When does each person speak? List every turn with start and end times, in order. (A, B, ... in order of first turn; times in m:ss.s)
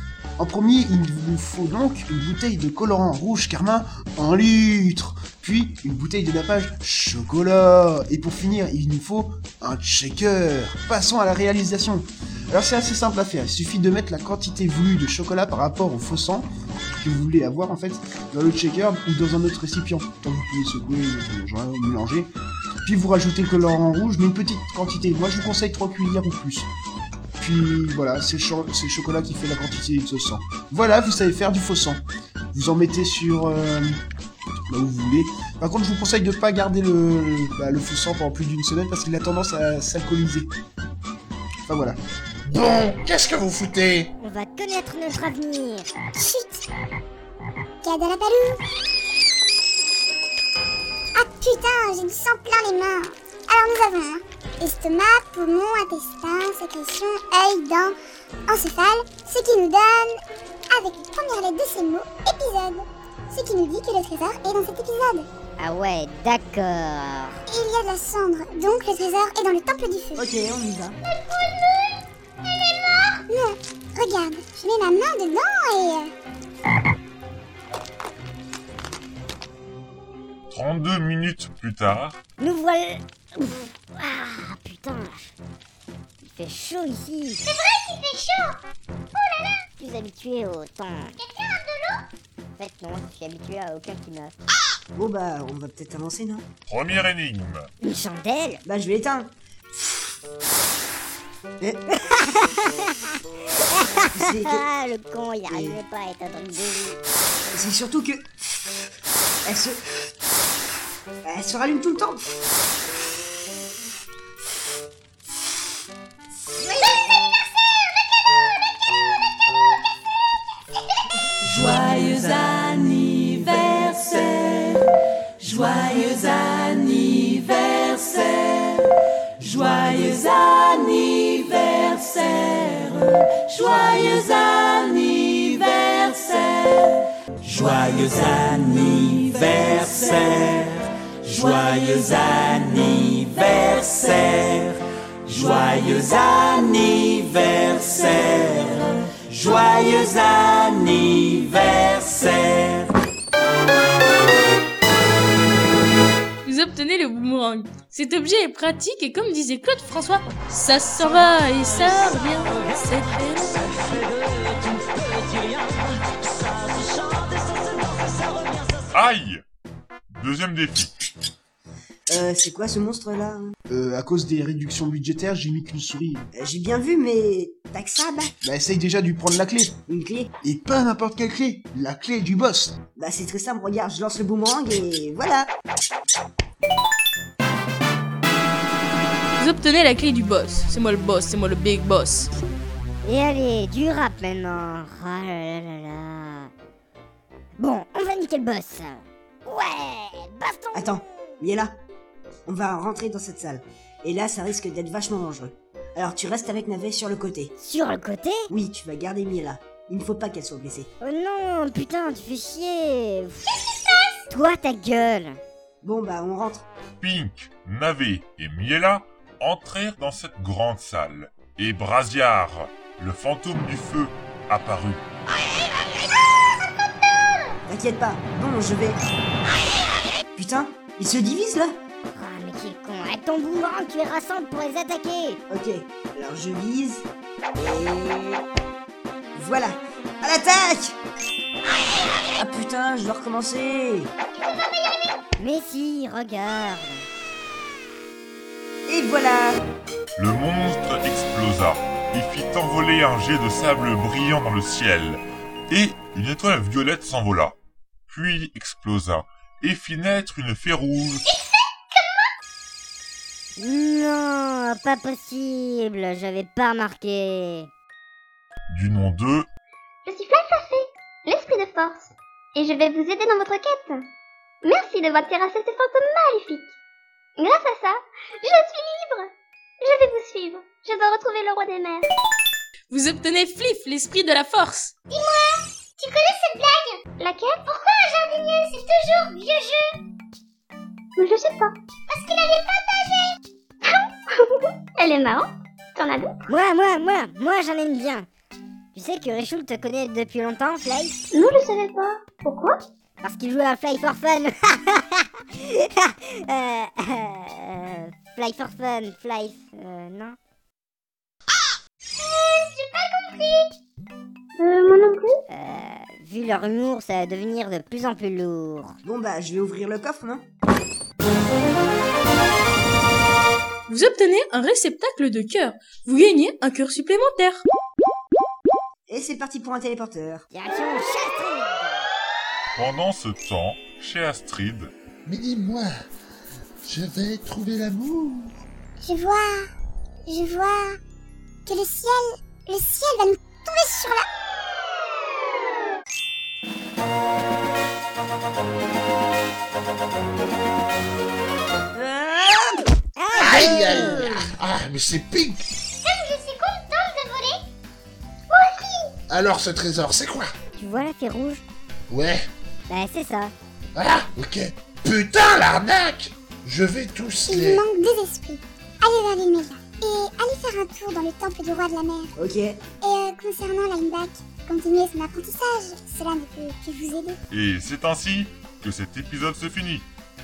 0:00.4-0:22.3 A
0:22.8-0:26.7 A
0:27.4-0:34.0 A
0:34.7-0:40.5 A
0:41.7-0:42.0 A
0:42.4-0:44.1 B
0:44.2-0:45.9 C
0:46.2-0:46.6 D
0:47.8-0:48.6 D
0:51.2-0:58.0 D
0:58.5-1:00.2 D
1:00.7-1:05.3 D
1:05.6-1:07.4 C
1:07.5-1:10.3 D
1:10.2-1:11.0 E
1:12.5-1:13.2 F
1:13.3-1:16.1 D
1:20.5-1:22.2 G
1:22.4-1:25.4 C
1:26.2-1:27.4 C
1:27.5-1:28.6 F
1:29.2-1:29.7 F
1:29.8-1:31.1 C
1:31.2-1:32.0 F
1:32.6-1:34.4 C
1:34.9-1:36.5 E
1:36.7-1:37.7 G
1:37.8-1:38.6 C
1:38.6-1:39.3 E
1:41.6-1:42.0 E
1:42.2-1:42.9 C
1:43.6-1:47.0 C
1:44.0-1:44.7 E
1:45.5-1:45.8 E
1:47.5-1:48.3 E
1:49.5-1:49.8 E
1:51.2-1:52.2 E
1:56.7-1:58.0 F
2:01.4-2:04.9 H
2:05.4-2:32.9 H
2:36.4-2:44.2 I
2:48.9-2:49.4 G
2:50.1-2:50.9 G
2:52.1-2:53.6 E
2:53.7-2:56.2 A
2:56.3-2:58.4 E
2:58.4-2:59.8 A
2:59.9-3:00.4 E
3:00.4-3:02.8 A
3:02.9-3:05.5 E
3:09.4-3:12.3 I
3:13.0-3:16.5 C
3:17.6-3:21.0 C
3:20.7-3:21.8 E
3:22.5-3:27.5 E
3:27.6-3:28.4 C
3:28.5-3:30.9 E
3:31.0-3:33.4 C
3:34.3-3:35.4 C
3:35.8-3:36.7 E
3:37.0-3:45.0 G
3:47.7-3:49.0 E
3:50.4-3:51.8 E
3:52.1-3:55.4 C
3:55.5-3:58.4 E
3:59.4-4:01.0 E
4:02.4-4:04.1 E
4:05.4-4:07.1 C
4:08.9-4:09.6 E
4:10.2-4:17.6 G
4:18.1-4:21.3 G
4:21.9-4:22.2 F
4:23.6-4:27.7 C
4:28.7-4:29.5 G
4:30.1-4:34.0 F
4:34.6-4:36.7 F
4:37.4-4:39.3 F
4:39.8-4:42.1 F
4:42.9-4:44.9 I
4:45.1-4:50.0 F
4:51.2-4:53.4 F
4:55.0-4:56.5 F
4:56.5-4:58.3 C
4:58.9-5:01.2 C
5:01.3-5:02.8 F
5:03.2-5:10.4 C
5:12.3-5:13.6 F
5:14.9-5:15.3 F
5:15.5-5:18.9 C
5:19.0-5:20.5 E
5:23.9-5:27.6 I
5:29.1-5:30.5 E
5:30.5-5:32.1 C
5:32.8-5:34.9 G
5:35.3-5:35.9 B
5:36.8-5:38.5 B
5:39.0-5:39.6 D
5:40.3-5:41.0 D
5:41.7-5:44.2 D
5:52.0-5:53.6 E
5:53.2-5:54.3 C
5:53.4-5:55.7 B
5:54.2-5:54.5 E
5:56.0-5:57.7 F
5:58.5-5:59.1 F
5:59.3-6:00.5 B
6:00.8-6:01.6 C
6:02.1-6:02.5 B
6:02.9-6:03.5 C
6:04.0-6:07.8 B
6:07.5-6:12.3 D
6:12.4-6:12.8 E
6:13.0-6:17.4 D
6:17.5-6:20.1 G